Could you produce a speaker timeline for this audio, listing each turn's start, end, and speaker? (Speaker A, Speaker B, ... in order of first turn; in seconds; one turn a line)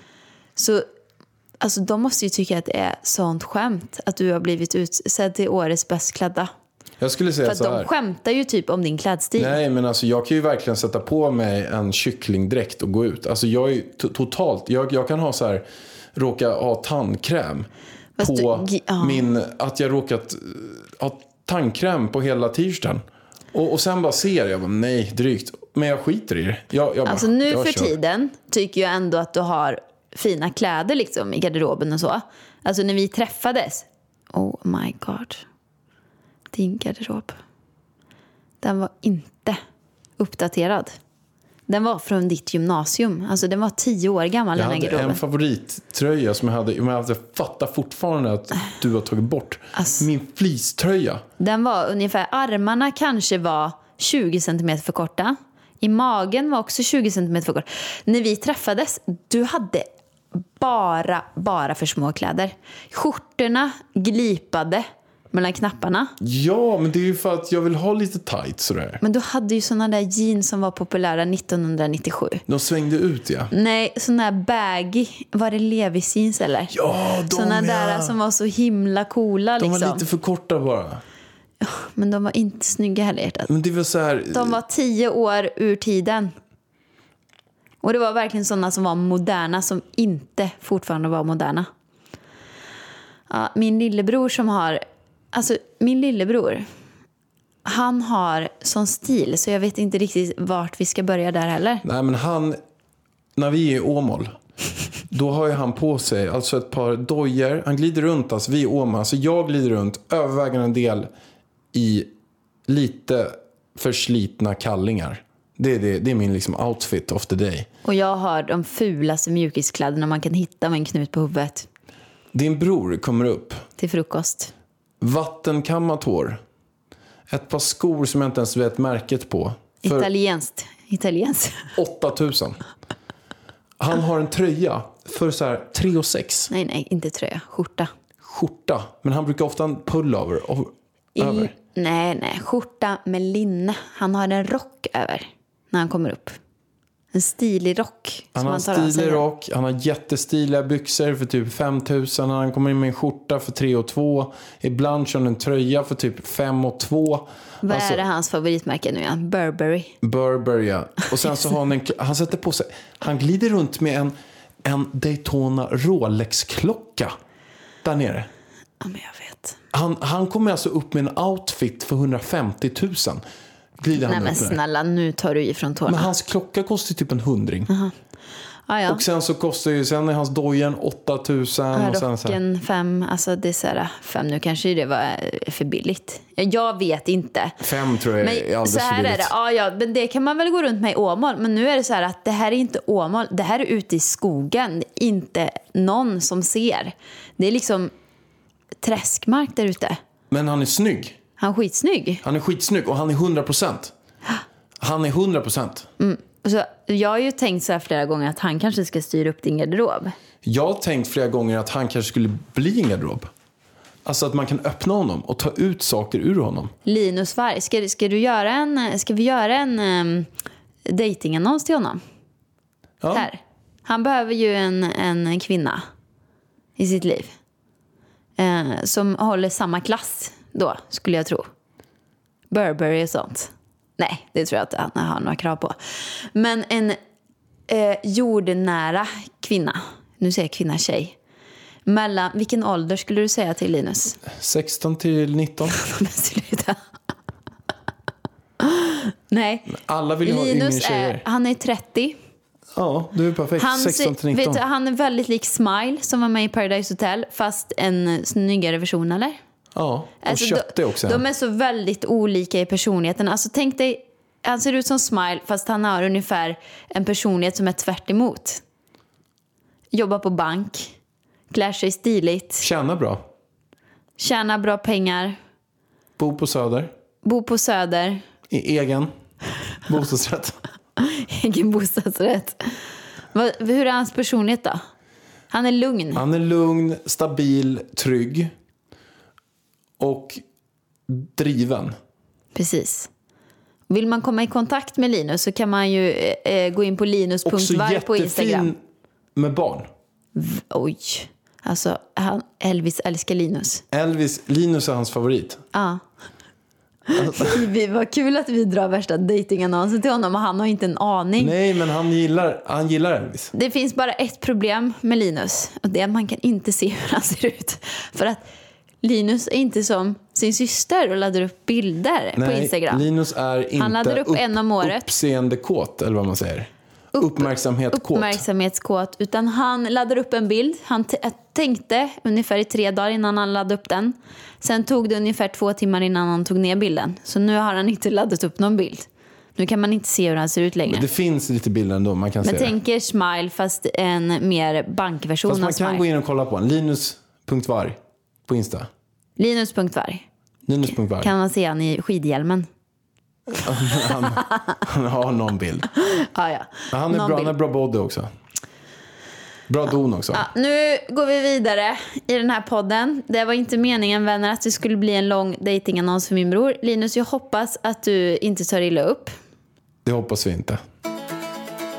Speaker A: 0.6-0.8
Speaker A: 1.6-6.5
Speaker B: 7.0-7.9
Speaker A: 7.4-9.6
Speaker B: 9.4-17.7
Speaker A: 18.2-19.2
Speaker B: 18.2-27.9
Speaker A: 27.1-35.5
Speaker A: 36.5-37.4
Speaker A: 38.6-39.6
Speaker A: 40.2-41.0
Speaker A: 41.7-45.2
Speaker B: 44.5-51.2
Speaker A: 49.8-50.0
Speaker A: 51.4-66.1
Speaker B: 66.2-69.0
Speaker A: 69.0-72.4
Speaker B: 72.5-73.5
Speaker A: 73.5-76.8
Speaker B: 76.7-78.2
Speaker A: 77.3-80.0
Speaker B: 79.6-81.0
Speaker A: 81.6-83.5
Speaker B: 83.5-84.6
Speaker A: 84.3-86.3
Speaker A: 87.8-91.7
Speaker A: 93.3-96.7
Speaker A: 97.7-101.8
Speaker B: 101.8-102.6
Speaker B: 103.4-104.3
Speaker B: 105.1-111.1
Speaker B: 111.7-112.1
Speaker B: 112.7-117.7
Speaker A: 117.8-121.7
Speaker B: 122.3-123.6
Speaker A: 123.8-124.5
Speaker B: 125.0-126.4
Speaker B: 127.3-130.1
Speaker A: 129.8-131.8
Speaker B: 131.8-132.6
Speaker B: 133.8-136.5
Speaker A: 136.5-137.9
Speaker B: 138.2-141.5
Speaker A: 141.2-146.4
Speaker A: 147.1-149.2
Speaker B: 148.3-158.0
Speaker A: 157.6-159.9
Speaker B: 160.0-167.1
Speaker B: 167.8-168.3
Speaker A: 168.8-169.6
Speaker B: 169.7-173.2
Speaker B: 173.8-174.6
Speaker A: 174.0-176.1
Speaker B: 175.9-177.7
Speaker A: 177.7-177.9
Speaker A: 178.7-179.0
Speaker B: 178.9-182.4
Speaker A: 181.7-187.6
Speaker B: 187.6-189.3
Speaker A: 188.2-197.9
Speaker A: 198.8-200.0
Speaker B: 200.3-201.2
Speaker A: 201.4-202.2
Speaker B: 202.2-203.9
Speaker B: 204.8-205.9
Speaker A: 206.0-210.2
Speaker B: 210.4-213.3
Speaker B: 214.1-216.7
Speaker A: 216.8-220.3
Speaker A: 220.9-222.0
Speaker B: 223.0-223.3
Speaker A: 223.1-225.8
Speaker A: 226.8-227.3
Speaker A: 228.4-231.5
Speaker A: 232.5-237.0
Speaker A: 237.7-241.2
Speaker A: 241.9-244.2
Speaker B: 244.3-245.8
Speaker A: 245.7-246.8
Speaker A: 248.6-252.2
Speaker B: 249.7-251.2
Speaker B: 252.7-254.6
Speaker A: 253.6-259.4
Speaker B: 259.8-261.2
Speaker A: 260.2-268.6
Speaker A: 269.9-270.9
Speaker A: 271.5-272.6
Speaker B: 272.6-273.2
Speaker A: 274.2-275.4
Speaker B: 276.2-276.9
Speaker A: 277.2-278.2
Speaker B: 278.5-279.1
Speaker B: 279.9-280.6
Speaker A: 281.0-282.8
Speaker A: 283.3-284.8
Speaker A: 285.5-286.2
Speaker B: 286.1-288.5
Speaker B: 290.0-290.4
Speaker B: 291.1-291.9
Speaker A: 292.6-293.1
Speaker A: 293.9-298.7
Speaker B: 297.5-298.8
Speaker B: 299.4-299.9
Speaker A: 300.4-303.8
Speaker B: 303.9-305.6
Speaker A: 305.7-306.0
Speaker A: 307.1-311.6
Speaker B: 307.1-307.6
Speaker B: 311.4-313.5
Speaker A: 313.5-318.4
Speaker A: 319.0-323.1
Speaker B: 322.4-328.4
Speaker A: 323.8-325.1
Speaker A: 327.1-341.1
Speaker B: 340.9-342.8
Speaker A: 342.4-346.1
Speaker B: 345.4-348.9
Speaker A: 349.4-350.2
Speaker B: 350.7-351.3
Speaker A: 351.2-352.7
Speaker B: 353.6-355.9
Speaker A: 355.9-357.5
Speaker B: 356.9-358.3
Speaker B: 359.7-360.4
Speaker A: 360.3-369.3
Speaker B: 370.1-370.8